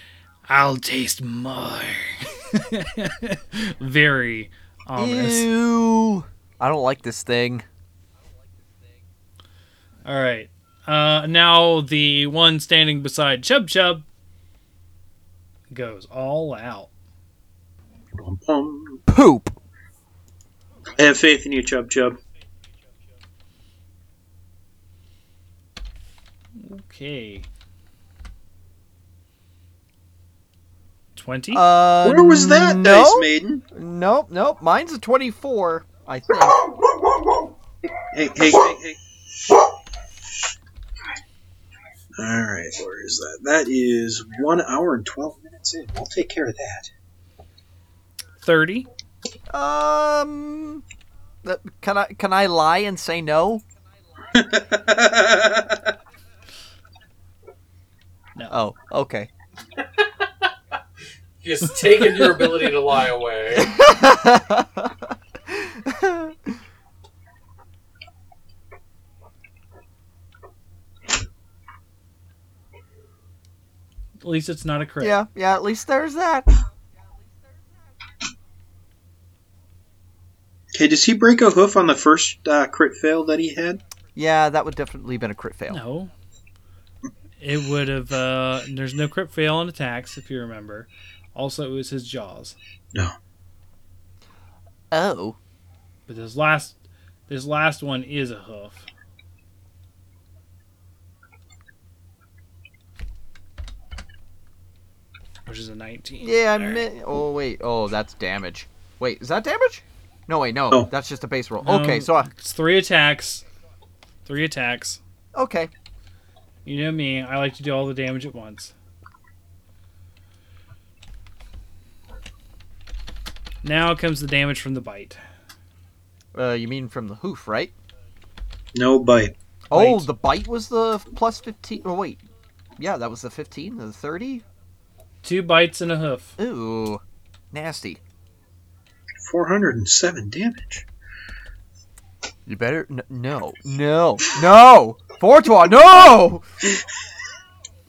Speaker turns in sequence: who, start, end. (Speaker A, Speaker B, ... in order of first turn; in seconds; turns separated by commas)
Speaker A: 0.5-5.5, Speaker B: 5.0-7.7, Speaker A: 10.1-14.1, Speaker A: 15.7-16.9, Speaker C: 18.1-19.0, Speaker B: 19.1-19.6, Speaker C: 21.0-22.2, Speaker A: 26.6-27.5, Speaker A: 31.2-31.6, Speaker B: 31.5-36.6, Speaker C: 32.0-33.6, Speaker C: 38.1-39.0, Speaker C: 42.2-46.9, Speaker A: 48.4-48.9, Speaker B: 49.5-50.8, Speaker B: 51.4-53.6, Speaker C: 54.3-55.9, Speaker B: 58.5-59.3, Speaker D: 59.8-60.5, Speaker D: 61.4-63.8, Speaker B: 63.6-66.6, Speaker A: 74.2-75.2, Speaker B: 75.0-76.5, Speaker C: 80.7-83.8, Speaker B: 84.2-85.8, Speaker A: 85.7-86.1, Speaker A: 87.4-92.6, Speaker B: 94.9-95.4, Speaker A: 96.1-96.8, Speaker A: 97.3-98.9, Speaker A: 105.5-106.8, Speaker B: 106.2-112.3, Speaker A: 111.6-113.4, Speaker A: 114.3-115.0, Speaker B: 115.3-115.7, Speaker A: 116.7-118.7, Speaker A: 123.6-125.2, Speaker B: 126.3-127.7, Speaker C: 128.7-129.3, Speaker B: 129.7-132.2, Speaker A: 129.7-130.1, Speaker B: 132.8-134.4, Speaker A: 135.2-136.3, Speaker B: 136.4-138.0, Speaker C: 139.2-140.8, Speaker B: 142.5-146.4